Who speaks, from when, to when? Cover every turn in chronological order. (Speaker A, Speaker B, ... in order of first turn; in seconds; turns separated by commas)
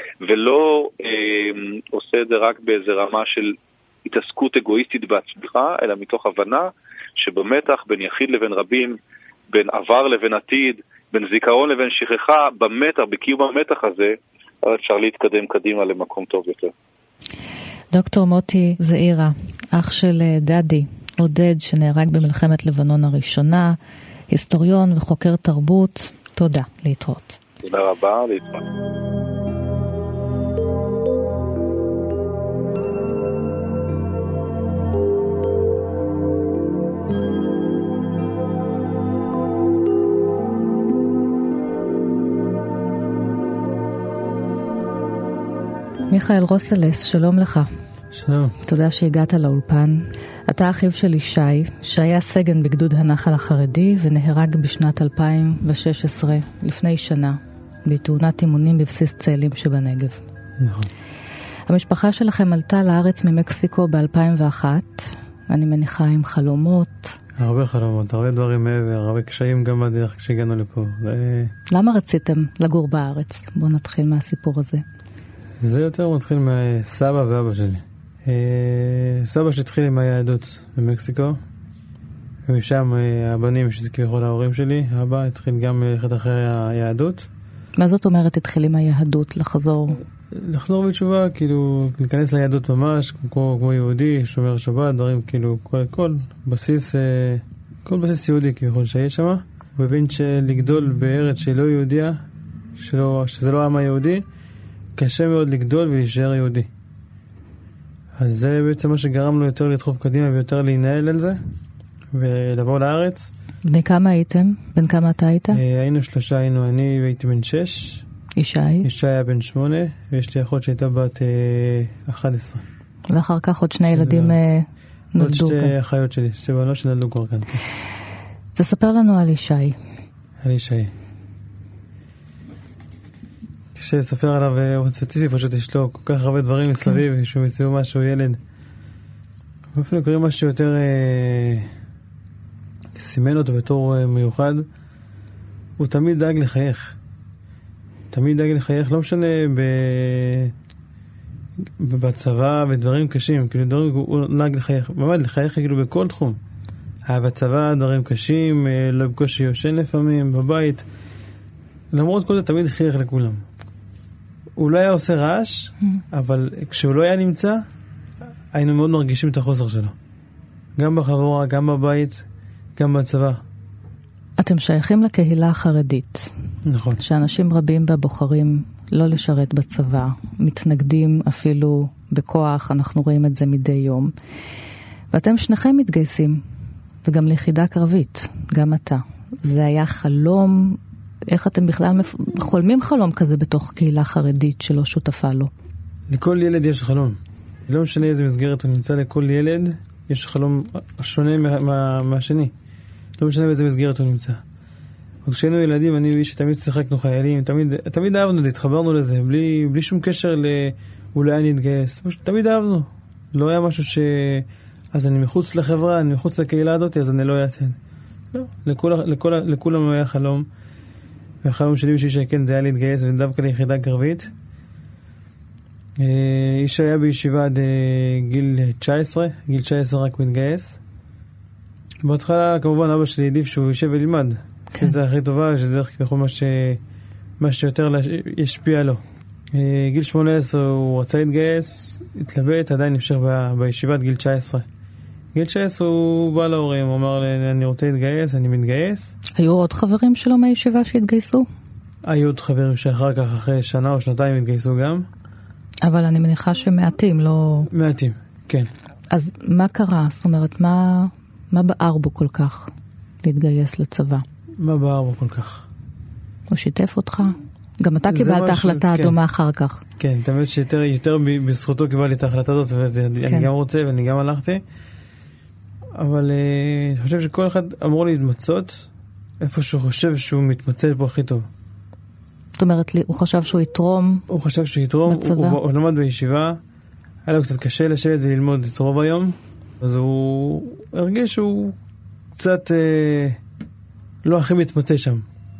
Speaker A: 0.2-9.0, Speaker A: 9.5-16.7, Speaker B: 17.9-23.8, Speaker B: 24.3-27.4, Speaker A: 27.6-28.7, Speaker B: 46.1-47.7, Speaker C: 48.1-48.5, Speaker B: 48.6-60.2, Speaker C: 60.6-60.9, Speaker B: 61.7-67.2, Speaker C: 67.4-71.5, Speaker B: 71.7-74.8, Speaker C: 75.6-81.4, Speaker C: 82.5-87.3, Speaker B: 87.8-90.0, Speaker C: 90.3-102.2, Speaker C: 102.8-104.2, Speaker C: 105.0-106.7, Speaker C: 108.2-111.4, Speaker C: 112.1-113.3, Speaker B: 113.7-115.6, Speaker C: 115.5-118.0, Speaker B: 118.4-118.8, Speaker C: 118.8-122.6, Speaker B: 123.1-125.7, Speaker C: 123.9-124.5, Speaker C: 125.2-127.6, Speaker B: 128.6-129.8, Speaker C: 130.4-130.9, Speaker C: 133.7-138.4, Speaker C: 139.7-141.7, Speaker C: 142.9-144.7, Speaker C: 145.8-146.9, Speaker C: 148.1-150.5, Speaker C: 151.8-156.4, Speaker C: 157.1-160.8, Speaker C: 161.9-163.4, Speaker C: 164.6-167.6, Speaker C: 168.5-169.9, Speaker C: 170.8-172.2, Speaker C: 172.8-173.4, Speaker B: 174.4-176.3, Speaker C: 176.7-177.0, Speaker B: 177.0-184.1, Speaker B: 185.1-186.4, Speaker B: 187.0-195.5, Speaker C: 196.1-202.5, Speaker C: 203.2-204.4, Speaker C: 205.2-217.8, Speaker C: 218.3-220.5, Speaker C: 221.4-224.3, Speaker C: 226.0-230.8, Speaker C: 232.0-236.8, Speaker C: 237.4-239.0, Speaker C: 239.5-244.6, Speaker C: 245.3-249.1, Speaker B: 249.4-251.4, Speaker C: 252.0-255.0, Speaker B: 255.8-257.7, Speaker C: 257.7-258.7, Speaker B: 259.1-262.7, Speaker B: 263.2-264.2, Speaker C: 264.6-265.6, Speaker B: 266.5-269.8, Speaker C: 268.1-269.1, Speaker C: 270.0-274.6, Speaker C: 276.0-278.9, Speaker C: 279.4-281.4, Speaker B: 282.6-284.2, Speaker C: 284.3-286.6, Speaker B: 285.1-285.6, Speaker C: 287.2-291.8, Speaker C: 292.3-293.4, Speaker C: 294.2-295.2